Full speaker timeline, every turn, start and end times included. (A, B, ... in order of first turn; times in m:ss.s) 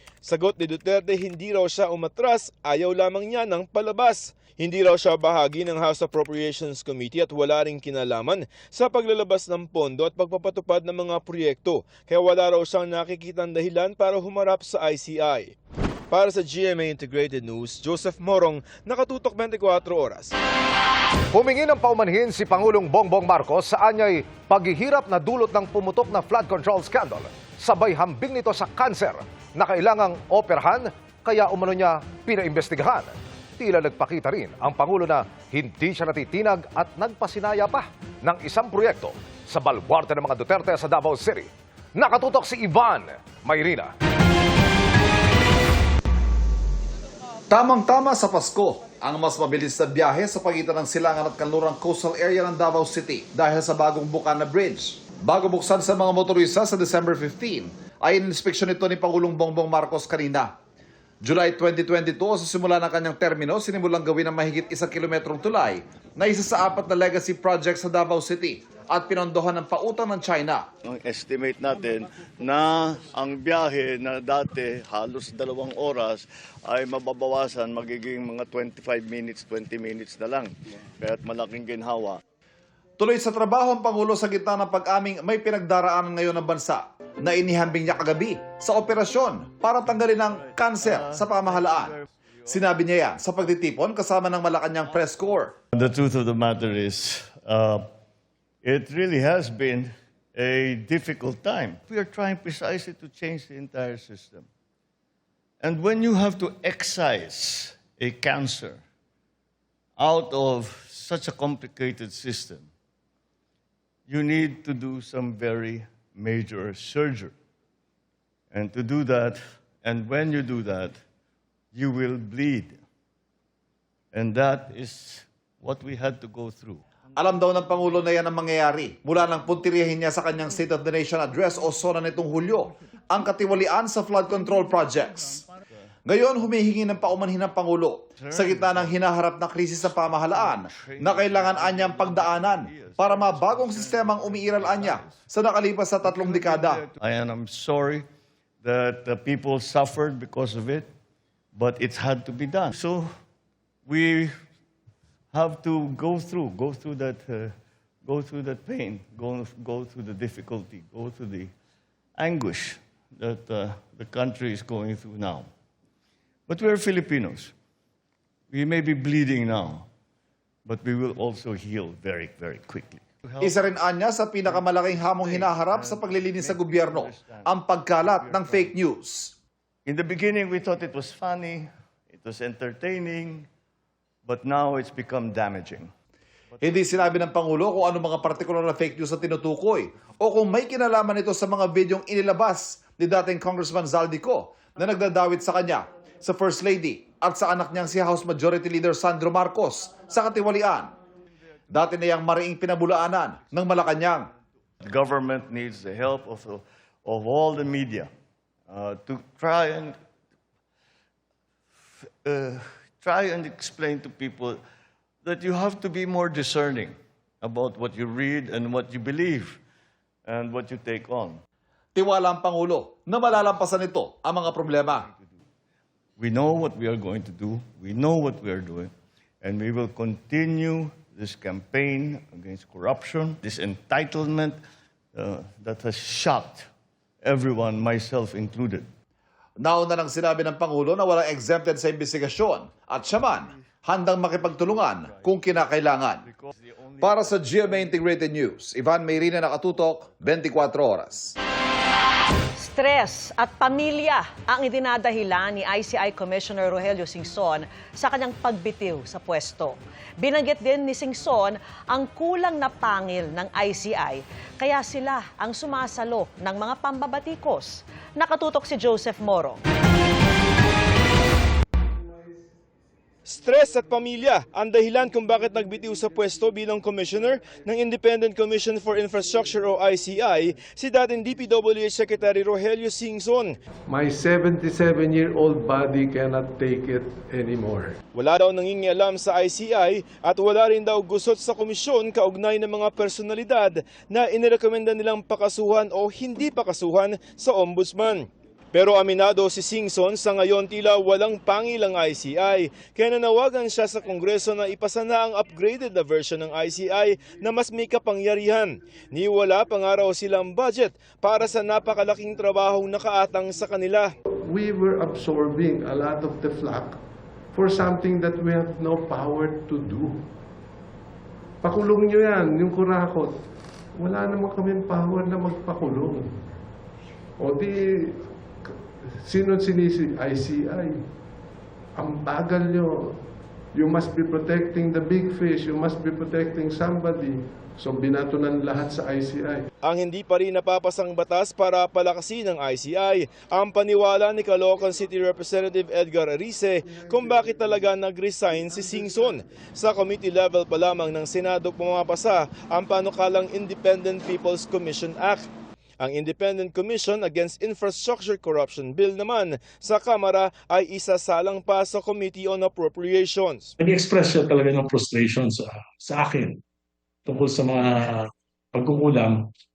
0:00.2-0:15.5 A
0:16.1-0:20.3 A
0:21.3-0:43.9 B
0:47.5-1:00.5 C
1:01.2-1:10.6 C
1:10.8-1:22.2 D
1:23.0-1:31.9 C
1:30.4-1:32.0 D
1:32.5-1:35.5 C
1:35.7-1:37.8 D
1:38.6-1:44.5 D
1:45.6-1:48.8 D
1:50.0-1:52.7 D
1:54.1-1:57.3 D
1:58.5-2:01.0 D
2:01.7-2:02.8 D
2:04.1-2:06.8 D
2:07.2-2:15.4 C
2:16.1-2:26.8 C
2:18.2-2:19.0 D
2:20.0-2:25.3 D
2:26.0-2:28.0 D
2:28.6-2:30.9 D
2:31.5-2:33.1 D
2:33.9-2:34.3 D
2:35.3-2:37.5 D
2:38.0-2:41.5 D
2:42.2-2:45.5 D
2:46.5-2:47.5 D
2:48.5-2:49.9 D
2:50.6-2:53.8 D
2:53.4-2:59.3 C
2:54.5-2:58.8 D
2:59.8-3:03.5 D
3:04.2-3:05.9 D
3:06.6-3:07.0 D
3:06.6-3:20.9 C
3:21.7-3:24.2 C
3:24.8-3:28.1 D
3:28.7-3:30.0 D
3:32.2-3:34.6 D
3:35.2-3:39.6 D
3:40.2-3:41.4 D
3:41.9-3:45.0 C
3:46.2-3:54.6 D
3:55.1-3:56.7 D
3:57.2-3:58.9 D
3:59.6-4:06.2 C
4:04.9-4:08.1 D
4:07.0-4:11.3 C
4:12.6-4:29.6 E
4:33.2-4:43.5 A
4:43.9-4:48.0 F
4:48.1-5:14.1 A
5:14.5-5:17.0 F
5:17.5-5:20.2 F
5:21.6-5:23.3 F
5:24.0-5:26.3 F
5:27.4-5:28.2 F
5:29.2-5:31.0 F
5:32.0-5:33.2 F
5:33.7-5:39.6 F
5:39.8-5:55.5 A
5:56.0-6:03.7 A
6:03.8-6:06.6 G
6:07.2-6:09.4 G